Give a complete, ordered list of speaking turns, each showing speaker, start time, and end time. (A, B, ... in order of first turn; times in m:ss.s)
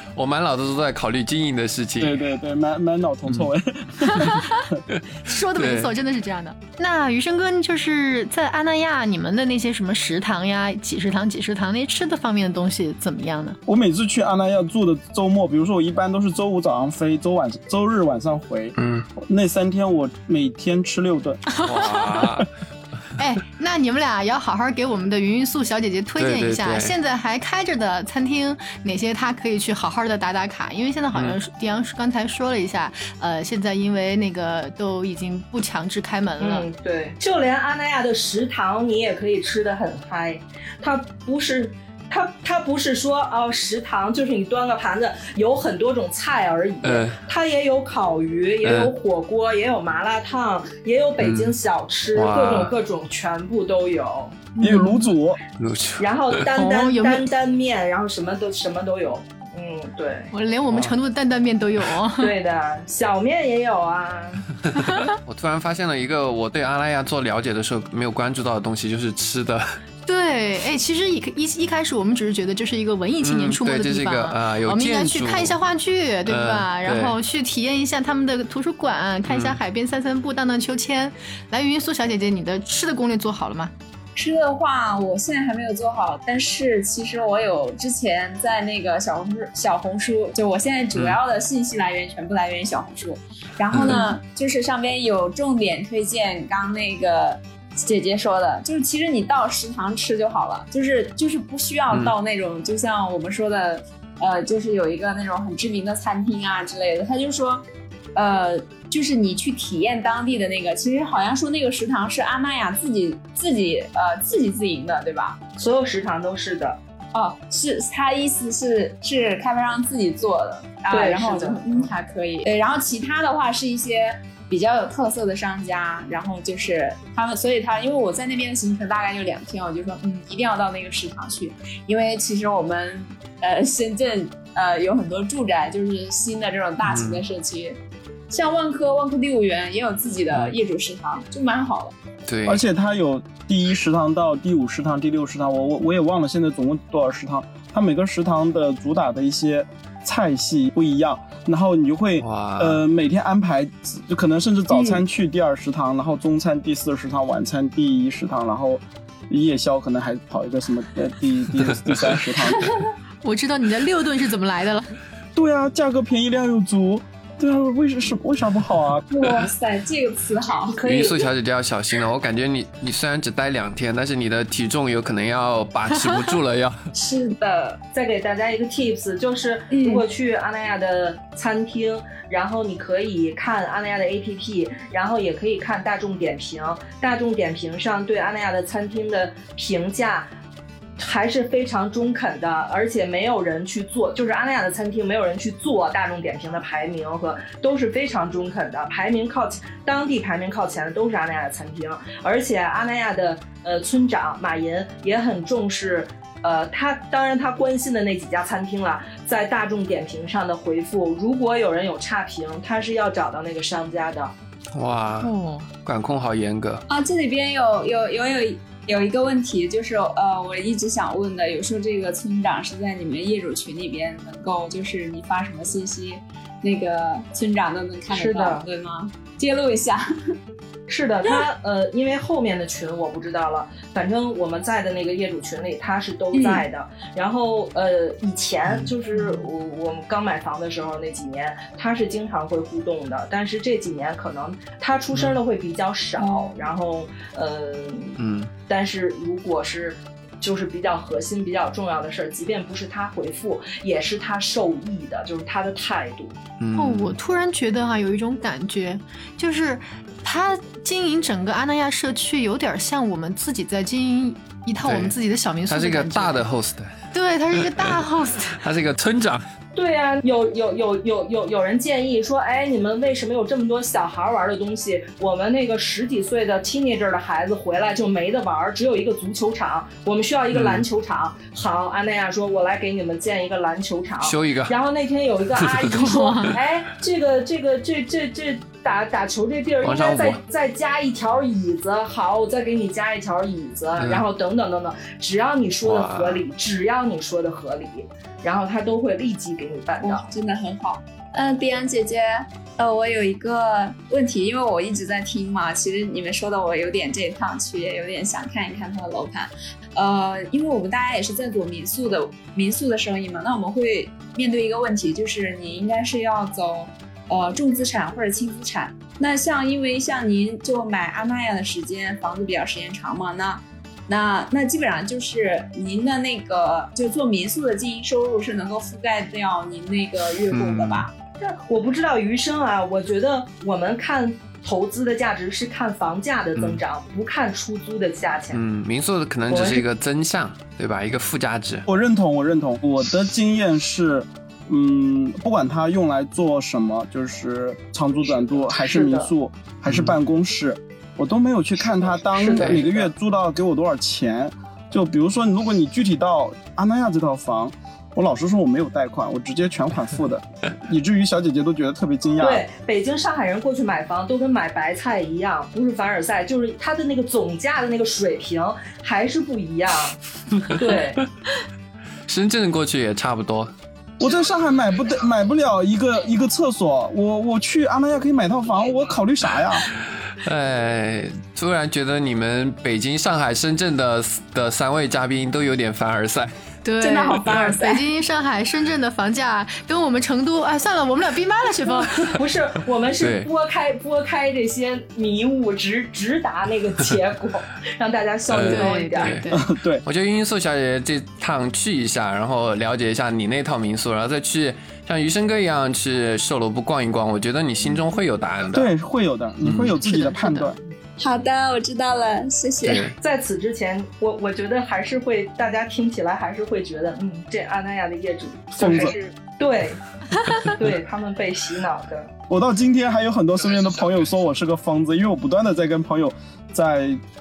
0:00.1-0:02.2 A
0:02.0-0:04.8 B
0:04.1-0:04.6 C
0:05.2-0:13.6 C
0:05.5-0:05.9 A
0:13.6-0:21.4 B
0:18.8-0:19.0 A
0:21.5-0:22.2 C
0:21.6-0:22.5 A
0:23.2-0:36.6 C
0:26.2-0:26.9 A
0:31.1-0:31.4 A
0:36.4-0:54.5 D
0:46.8-0:47.2 A
0:48.6-0:48.9 A
0:51.2-0:51.5 A
0:52.1-0:52.7 A
0:54.6-0:55.0 C
0:54.6-0:55.4 B
0:55.6-0:56.4 A
0:56.0-1:00.3 D
0:56.5-0:57.3 C
1:00.3-1:02.3 C
1:00.7-1:01.0 A
1:02.2-1:04.5 D
1:04.8-1:05.0 C
1:05.2-1:09.8 A
1:10.0-1:23.7 C
1:13.2-1:15.5 A
1:16.2-1:17.2 A
1:19.2-1:19.6 A
1:24.2-1:55.4 E
1:33.7-1:34.1 A
1:41.9-1:42.1 A
1:55.6-1:56.8 D
1:57.1-2:21.9 E
2:00.9-2:01.9 D
2:16.8-2:17.2 A
2:22.2-2:22.6 A
2:22.4-2:42.7 B
2:32.2-2:32.8 A
2:42.6-2:42.8 E
2:43.2-2:44.9 C
2:45.3-2:49.1 B
2:49.1-2:50.8 E
2:50.7-2:51.3 D
2:50.8-2:56.8 A
2:56.9-2:57.8 E
2:57.9-3:10.3 D
2:59.7-3:00.0 E
3:11.0-3:34.3 D
3:34.7-3:35.3 A
3:35.2-3:35.7 C
3:35.8-3:36.8 A
3:36.9-3:50.0 E
3:48.1-3:48.6 D
3:50.9-4:16.4 D
3:56.3-3:56.6 E
4:06.2-4:06.5 E
4:08.2-4:08.5 A
4:16.6-4:17.2 A
4:16.7-4:26.4 C
4:24.8-4:25.1 A
4:25.7-4:27.0 A
4:27.1-4:28.6 C
4:27.5-4:29.4 A
4:29.7-5:00.2 D
4:40.5-4:40.8 A
4:44.2-4:44.7 A
4:45.8-4:46.5 C
4:49.8-4:50.4 A
4:54.0-4:54.2 A
4:55.8-4:56.4 A
5:00.0-5:31.1 E
5:30.5-5:31.1 A
5:31.4-5:38.6 D
5:36.6-5:36.8 A
5:38.5-5:41.8 A
5:39.5-5:39.8 D
5:41.8-6:02.6 B
5:48.3-5:49.3 D
5:49.9-5:50.2 A
5:52.2-5:53.1 D
5:52.5-5:52.8 A
6:02.4-6:10.2 D
6:10.6-6:11.2 A
6:10.7-6:11.2 D
6:12.3-6:13.7 A
6:14.2-6:19.9 B
6:20.3-6:26.5 A
6:26.8-6:32.3 C
6:27.0-6:28.0 E
6:32.2-6:39.4 D
6:33.2-6:33.5 A
6:38.5-6:39.5 A
6:38.7-6:39.6 C
6:39.5-6:40.0 B
6:40.0-6:48.9 A
6:48.7-6:50.8 B
6:49.6-6:50.0 A
6:50.0-6:50.7 C
6:51.2-6:53.1 E
6:52.8-6:53.1 A
6:53.2-7:00.0 D
6:58.7-6:59.1 B
7:00.3-7:00.6 C
7:00.6-7:02.3 D
7:02.5-7:07.2 B